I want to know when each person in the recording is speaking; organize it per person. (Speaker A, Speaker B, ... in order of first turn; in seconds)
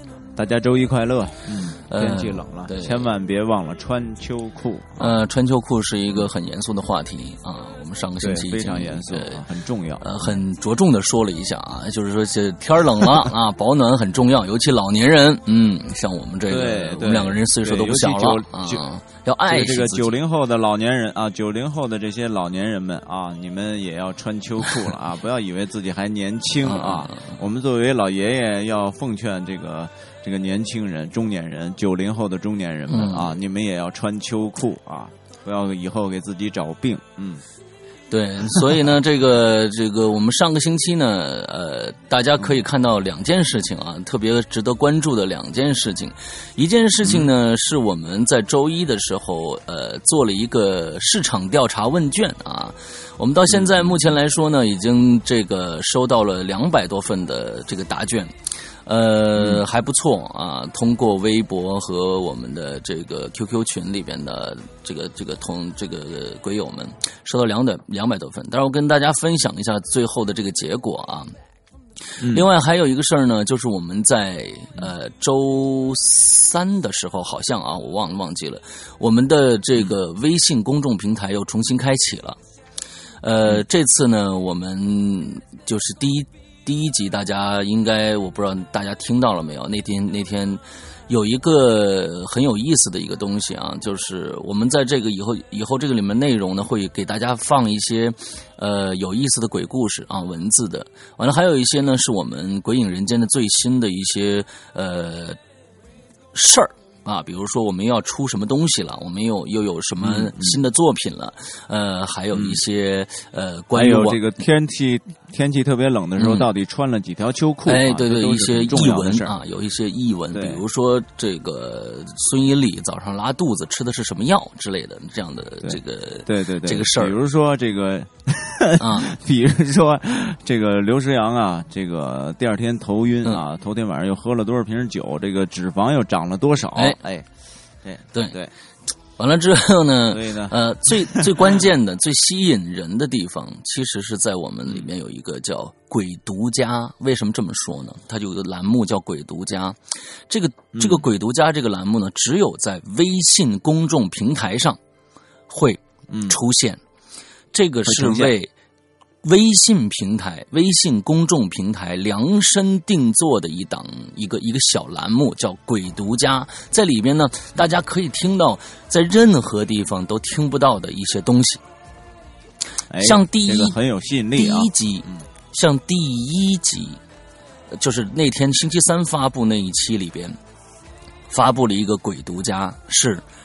Speaker A: 0.3-5.2, 8.2-10.4, 16.5-18.8, 19.4-37.4, 53.5-53.9, 110.0-110.6, 112.3-112.6, 113.7-119.3, 120.3-120.6, 125.6-137.3, 137.8-138.5, 140.1-141.6, 150.7-151.1, 156.1-156.4, 157.9-158.3, 172.9-175.2
Speaker B: 1.9-3.1, 5.0-9.4, 10.0-20.2, 26.6-27.4, 32.9-33.4, 38.1-71.3, 72.1-82.4, 83.2-105.4, 106.3-114.2, 116.2-116.5, 117.7-127.2, 128.8-129.1, 139.2-154.8, 155.5-156.8, 157.5-158.5, 159.2-171.6, 173.0-173.8, 174.3-177.0, 177.7-180.4, 181.3-183.2